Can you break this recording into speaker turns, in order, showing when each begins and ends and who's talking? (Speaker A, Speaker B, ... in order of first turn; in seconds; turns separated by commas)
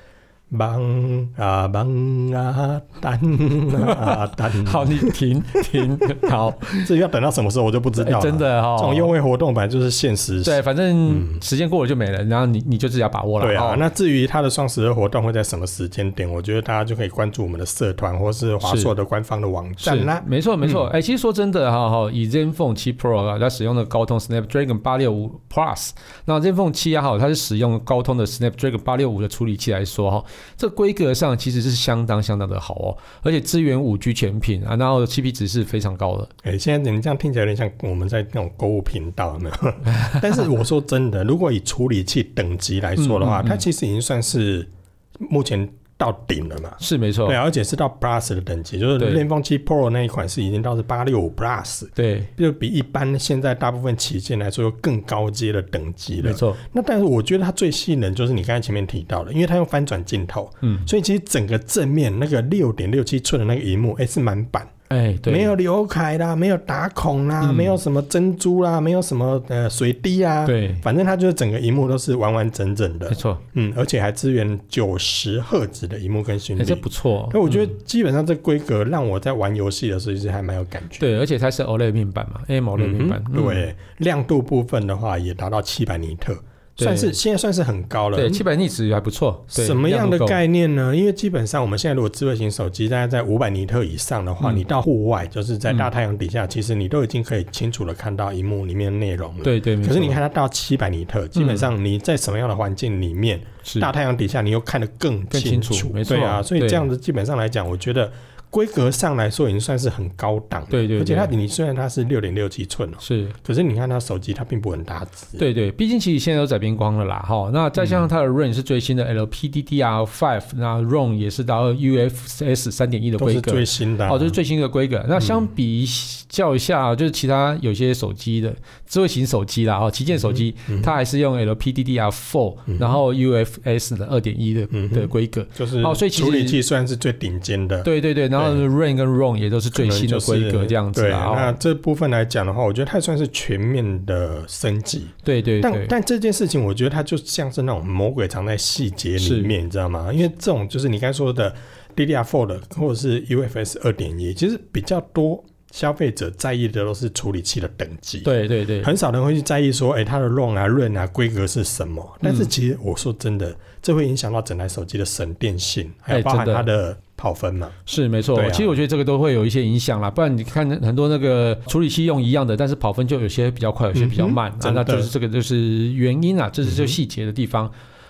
Speaker A: 0.5-5.1, Speaker B: 3.7-6.9, Speaker A: 6.7-11.4, Speaker B: 8.0-9.1, Speaker B: 10.4-13.8, Speaker A: 13.4-20.8, Speaker B: 18.6-18.9, Speaker B: 19.8-36.3, Speaker A: 36.4-64.7, Speaker B: 39.9-40.2, Speaker B: 43.0-43.6, Speaker B: 46.8-47.4, Speaker B: 49.0-49.2, Speaker B: 52.0-52.3, Speaker B: 56.2-56.6, Speaker B: 60.6-60.9, Speaker B: 64.9-65.5, Speaker A: 65.3-81.1, Speaker B: 67.4-67.8, Speaker B: 70.4-70.8, Speaker B: 73.1-73.4, Speaker B: 76.6-77.7, Speaker B: 81.0-83.7, Speaker A: 82.8-88.4, Speaker B: 86.8-87.1, Speaker B: 88.1-90.4, Speaker A: 89.5-115.4, Speaker B: 99.4-100.2, Speaker B: 101.3-101.7, Speaker B: 105.3-106.8, Speaker B: 110.7-111.3, Speaker B: 113.0-113.3, Speaker B: 115.4-136.6, Speaker A: 117.8-118.1, Speaker A: 123.2-124.4, Speaker A: 125.2-125.5, Speaker A: 130.2-130.9, Speaker A: 132.7-133.0, Speaker A: 134.7-138.6, Speaker B: 137.8-141.6, Speaker A: 139.7-167.8, Speaker B: 145.2-145.9, Speaker B: 149.2-149.5, Speaker B: 158.2-158.9, Speaker B: 162.2-162.5, Speaker B: 166.1-166.7, Speaker B: 167.8-177.7, Speaker A: 168.3-168.8, Speaker A: 173.9-175.1, Speaker A: 176.6-177.0